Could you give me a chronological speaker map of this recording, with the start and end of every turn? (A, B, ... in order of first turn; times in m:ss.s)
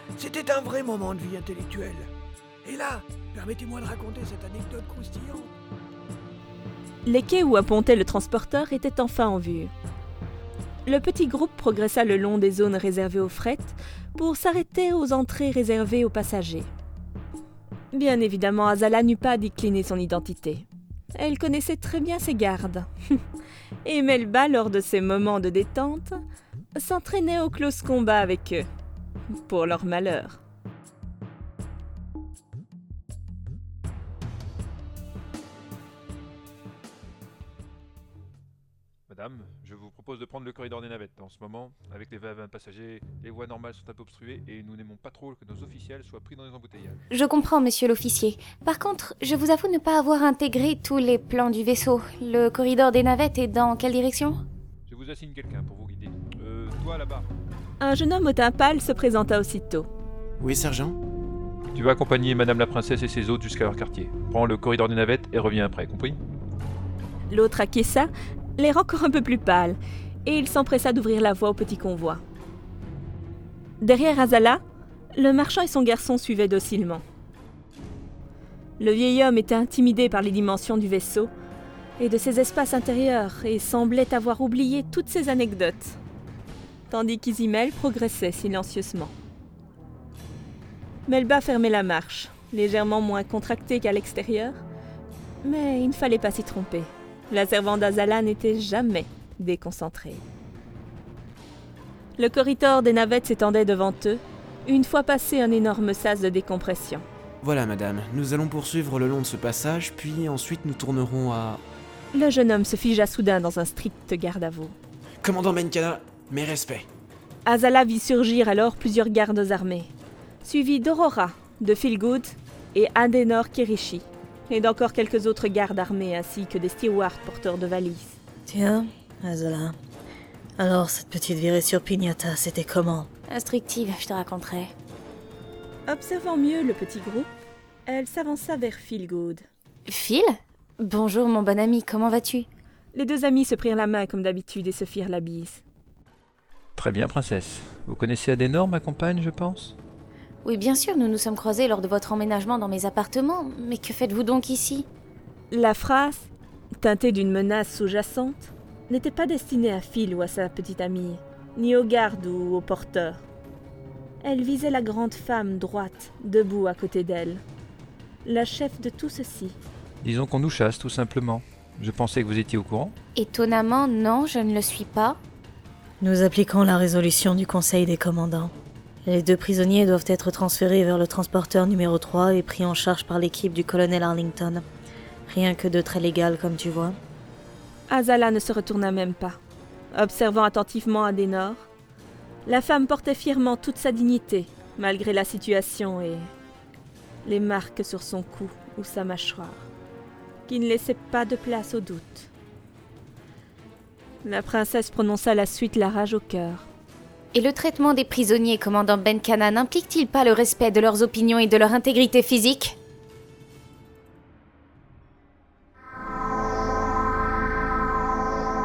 0:00.2-0:02.1 A
0:02.6-0:05.5 A
0:07.0-0:09.7 B
0:10.8-0:16.7 B
0:17.9-0:22.9 B
0:23.8-0:26.2 B
0:26.7-0:28.6 B
0:29.3-0:30.4 B
0:39.1-0:47.0 C
0:47.1-0:54.4 D
0:54.9-0:57.3 C
0:57.8-0:59.9 B
1:00.4-1:01.0 E
1:01.7-1:06.2 C
1:07.3-1:12.2 B
1:13.8-1:14.6 B
1:15.2-1:17.0 B
1:18.8-1:21.3 B
1:22.0-1:26.0 B
1:26.9-1:29.1 B
1:31.0-1:34.6 B
1:35.4-1:40.2 B
1:42.2-1:47.0 B
1:47.4-1:51.6 E
1:52.1-1:54.8 B
1:55.2-1:56.9 E
1:57.4-1:59.9 B
2:00.4-2:08.2 B
2:08.5-2:09.7 F
2:10.6-2:13.1 F
2:13.3-2:14.7 D
2:15.9-2:17.3 B
2:17.9-2:19.4 B
2:19.9-2:22.5 D
2:22.9-2:25.6 B
2:26.8-2:29.7 C
2:30.4-2:34.9 D
2:35.5-2:36.3 B
2:36.8-2:43.2 B
2:44.2-2:47.4 B
2:48.2-2:49.6 B
2:50.0-2:52.9 C
2:53.2-2:55.2 D
2:56.0-2:58.5 F
2:59.0-3:04.6 F
3:05.3-3:07.0 F
3:07.9-3:09.4 B
3:09.9-3:11.7 B
3:12.4-3:16.3 B
3:17.2-3:19.7 B
3:20.5-3:22.3 B
3:24.2-3:26.7 B
3:27.3-3:32.7 D